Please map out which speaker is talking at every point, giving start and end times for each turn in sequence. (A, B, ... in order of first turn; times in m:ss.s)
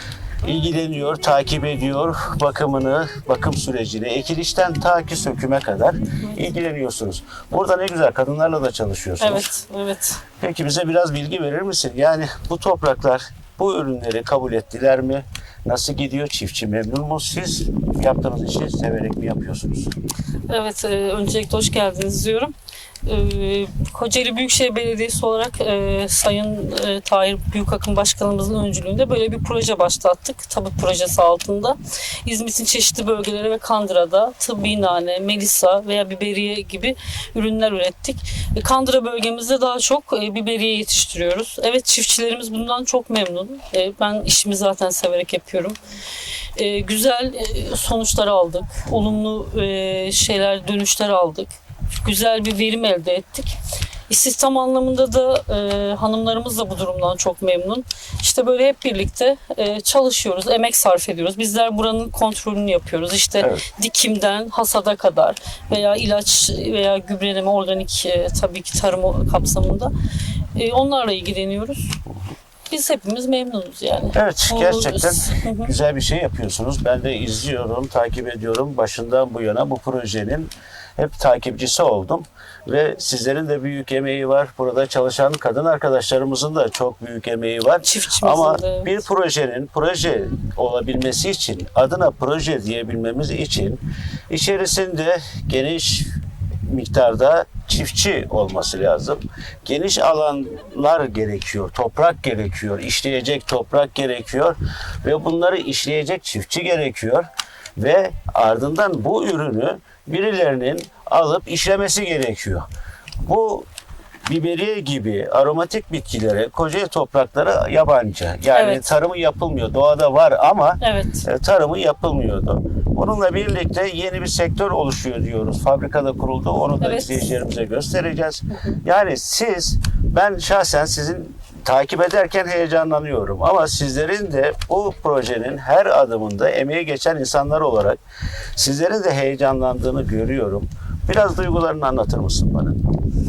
0:00.4-0:09.5 A
0:09.2-0:10.2 B
0:10.4-0:19.9 A
0:20.5-0:22.5 B
0:23.0-0:45.8 B
0:46.6-0:53.6 B
0:54.1-1:09.9 B
1:10.6-1:12.0 B
1:12.7-1:15.7 B
1:14.1-1:36.1 A
1:27.8-1:29.0 B
1:36.7-1:52.7 A
1:53.2-1:53.7 A
1:54.3-2:18.0 A
1:58.5-1:58.9 B
2:00.8-2:01.2 B
2:06.8-2:07.2 B
2:08.5-2:08.8 B
2:18.6-2:22.8 A